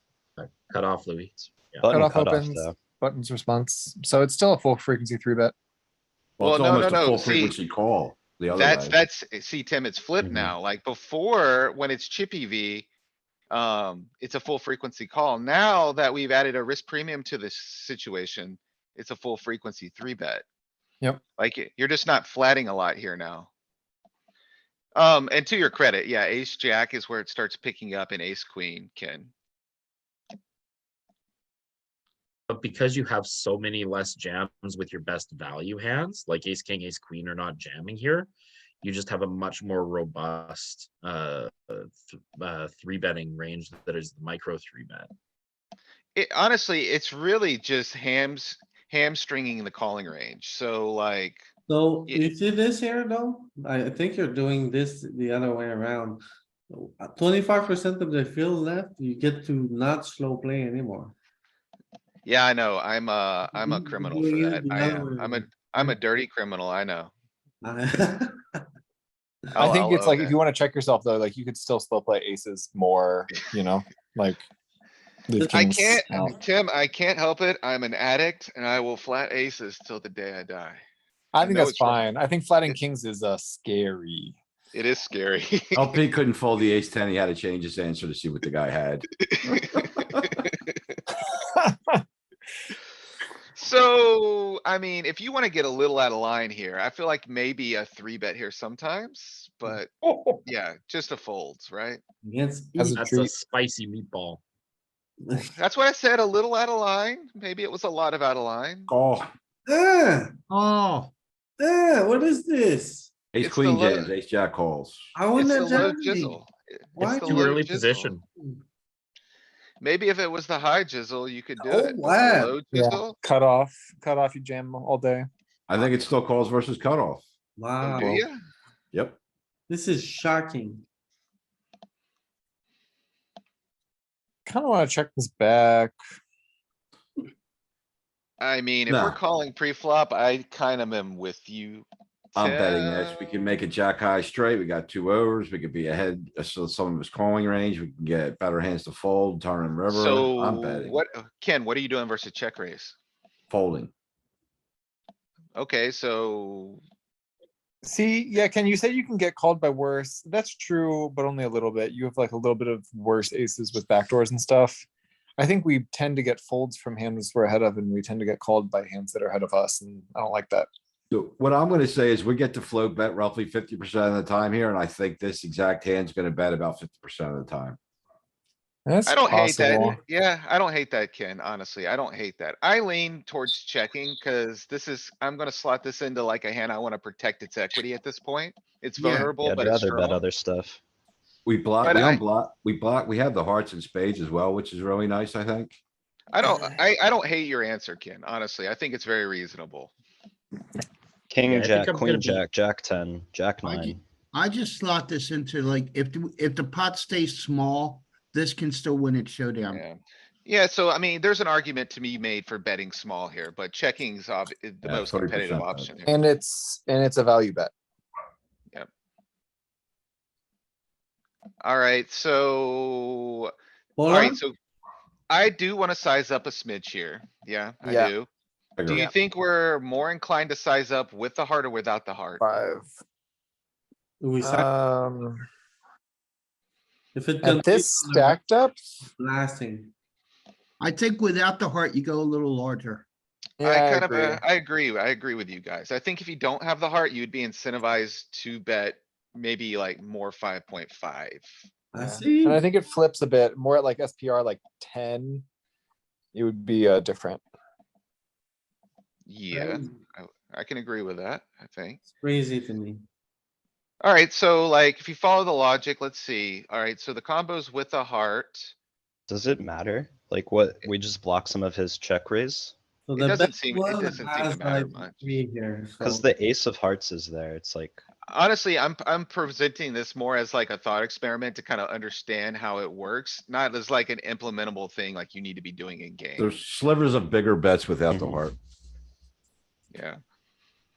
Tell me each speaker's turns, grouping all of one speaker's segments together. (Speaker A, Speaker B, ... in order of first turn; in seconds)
Speaker A: 0.4-2.0, 32.5-38.3, 38.8-45.1, 102.9-104.4, 117.0-118.2
Speaker B: 1.8-2.8, 10.2-10.5, 189.4-190.8, 201.3-204.0, 269.3-272.8, 276.0-278.0, 288.1-288.4
Speaker C: 1.9-5.5, 69.5-74.4, 75.3-76.4, 81.3-84.4, 91.3-92.0, 100.0-100.4, 102.8-103.3, 122.7-125.3, 134.5-136.0, 157.8-164.8, 165.4-170.7, 178.9-180.0, 216.1-217.7, 227.8-228.2, 232.4-232.9, 234.4-235.4, 237.4-238.9, 243.6-244.4, 252.4-255.4, 256.3-257.4
Speaker D: 6.4-9.0, 85.8-89.2, 108.9-109.3, 113.3-115.1, 125.7-127.2, 138.9-139.2, 142.4-151.0, 153.5-153.9, 171.1-177.8, 191.5-195.8, 214.8-215.9, 228.8-229.1, 286.4-288.6
Speaker E: 6.4-7.5, 8.6-12.9, 13.5-20.4, 21.4-23.5, 25.0-29.3, 46.1-51.5, 62.2-67.1, 69.5-70.4, 75.4-80.8, 81.4-82.0, 84.7-86.0, 89.3-90.8, 93.5-99.9, 100.5-102.0, 105.6-108.9, 113.4-114.1, 115.4-118.1, 119.8-123.2, 127.8-128.4, 138.4-143.5, 149.9-153.0, 155.6-156.8, 179.1-190.2, 191.8-192.2, 196.3-199.9, 209.7-216.1, 221.6-223.5, 224.1-224.5, 225.3-228.3, 228.9-232.5, 243.6-252.3, 259.3-262.0, 264.0-268.7, 273.2-275.2, 278.3-286.5, 289.9-290.2
Speaker F: 51.7-61.1, 63.5-66.0, 67.6-68.6, 102.2-103.0, 105.2-105.5, 109.7-110.3, 111.6-113.1, 115.2-116.3, 117.0-117.6, 121.6-122.7, 127.6-128.2, 129.7-130.8, 189.0-189.3, 224.0-224.4, 234.2-234.7, 237.1-238.4, 239.0-239.9, 251.9-252.7, 259.5-259.9, 262.1-263.1, 273.1-276.3
Speaker G: 110.5-111.1, 115.7-116.3, 201.6-202.4, 203.6-209.8, 240.8-243.1